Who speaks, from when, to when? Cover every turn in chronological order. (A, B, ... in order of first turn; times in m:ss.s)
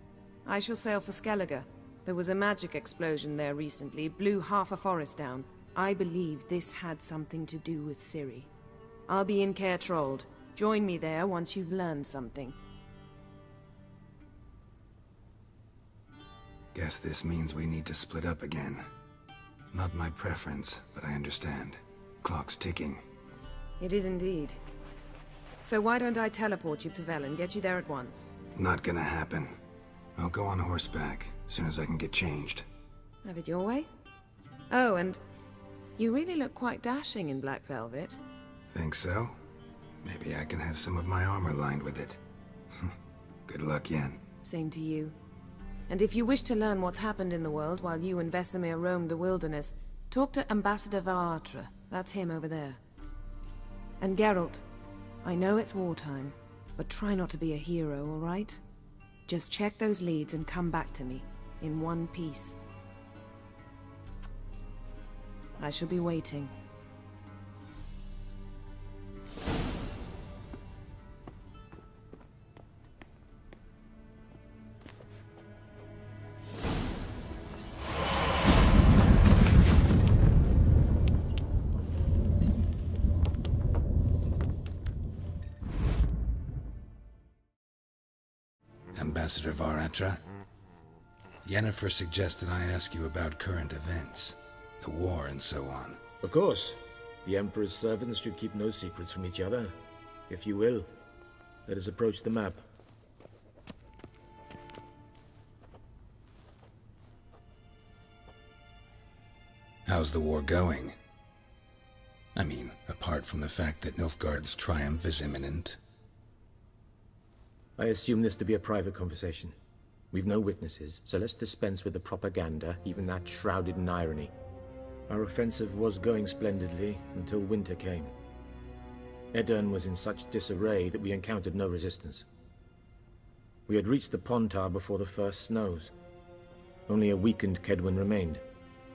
0:00.4-0:08.5 A
0:09.1-0:12.6 A
0:16.7-0:18.9 B
0:19.7-0:23.0 B
0:23.8-0:24.6 A
0:25.6-0:28.3 A
0:28.5-0:29.6 B
0:30.2-0:32.6 B
0:33.2-0:33.9 A
0:34.7-0:35.2 A
0:36.0-0:38.2 A
0:38.7-0:39.4 B
0:40.0-0:42.2 B
0:43.5-0:44.2 B
0:44.4-0:45.2 A
0:45.9-0:52.8 A
0:54.0-0:54.6 A
0:55.2-0:58.6 A
0:59.3-1:02.6 A
1:05.6-1:06.5 A
1:28.9-1:30.2 B
1:31.4-1:36.0 B
1:36.2-1:40.9 C
1:41.6-1:42.6 C
1:49.8-1:51.0 B
1:52.3-1:55.8 B
1:57.8-1:59.6 C
2:00.1-2:04.3 C
2:05.1-2:08.1 C
2:09.3-2:12.2 C
2:13.7-2:15.9 C
2:16.9-2:18.4 C